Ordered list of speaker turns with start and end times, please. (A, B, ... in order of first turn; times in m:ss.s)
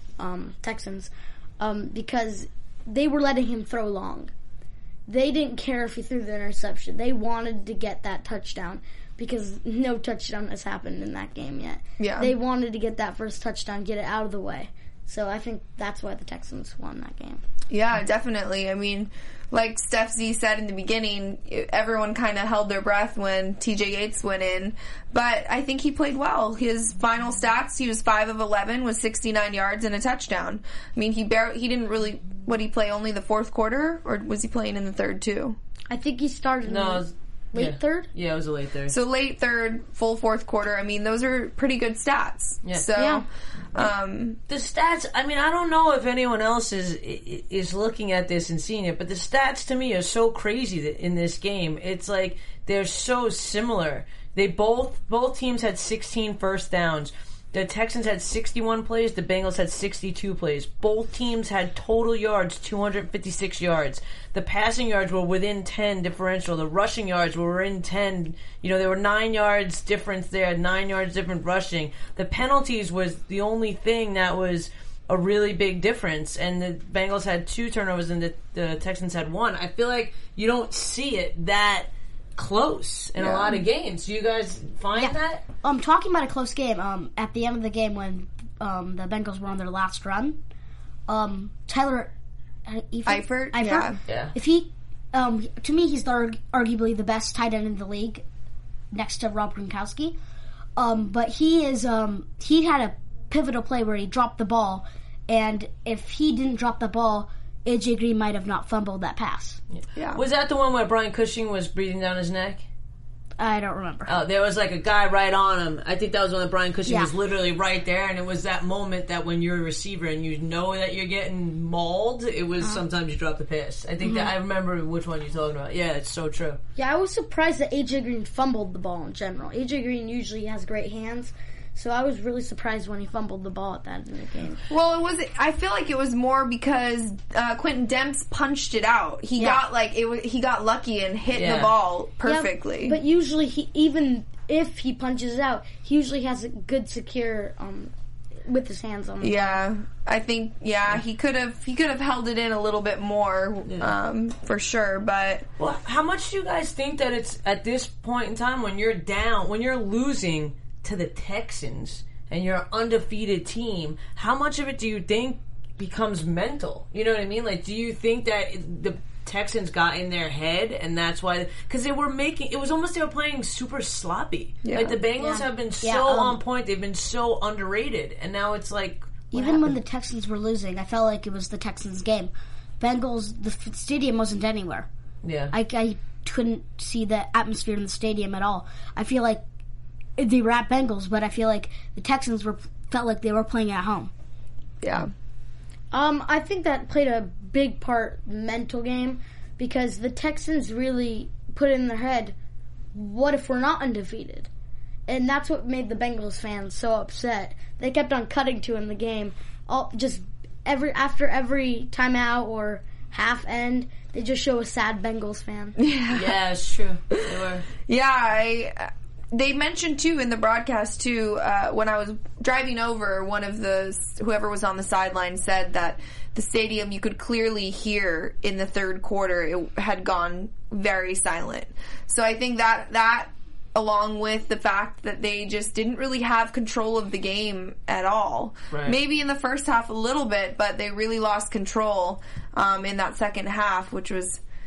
0:00.2-0:04.3 A
0:05.1-0:17.4 A
0:12.0-0:12.3 B
0:17.7-0:35.6 B
0:35.9-0:38.1 A
0:36.7-0:38.9 C
0:38.9-0:44.4 B
0:43.0-0:43.2 A
0:44.5-1:25.4 C
1:23.2-1:23.6 B
1:25.0-1:30.4 D
1:31.1-1:32.1 D
1:32.6-1:38.2 D
1:33.1-1:34.0 B
1:34.1-1:34.3 C
1:38.9-1:40.2 D
1:40.8-1:49.6 D
1:49.7-1:52.6 C
1:50.0-1:50.2 B
1:53.4-1:54.2 D
1:54.1-2:06.6 C
1:56.9-1:57.1 D
2:04.0-2:04.3 D
2:06.8-2:14.6 A
2:14.7-2:23.0 B
2:21.3-2:21.7 C
2:22.2-2:27.9 A
2:28.5-2:29.6 A
2:29.2-2:35.5 B
2:33.7-2:33.9 C
2:35.6-2:59.6 C
2:54.6-2:55.0 B
2:55.2-2:56.4 D
2:59.3-3:04.9 D
3:05.2-3:05.5 C
3:05.5-3:09.4 D
3:10.2-3:14.1 D
3:14.8-3:15.1 B
3:15.9-3:22.4 A
3:23.0-3:24.5 A
3:25.1-3:35.8 A
3:35.8-3:36.3 B
3:36.1-3:37.7 C
3:37.9-4:04.4 B
3:58.7-3:59.0 C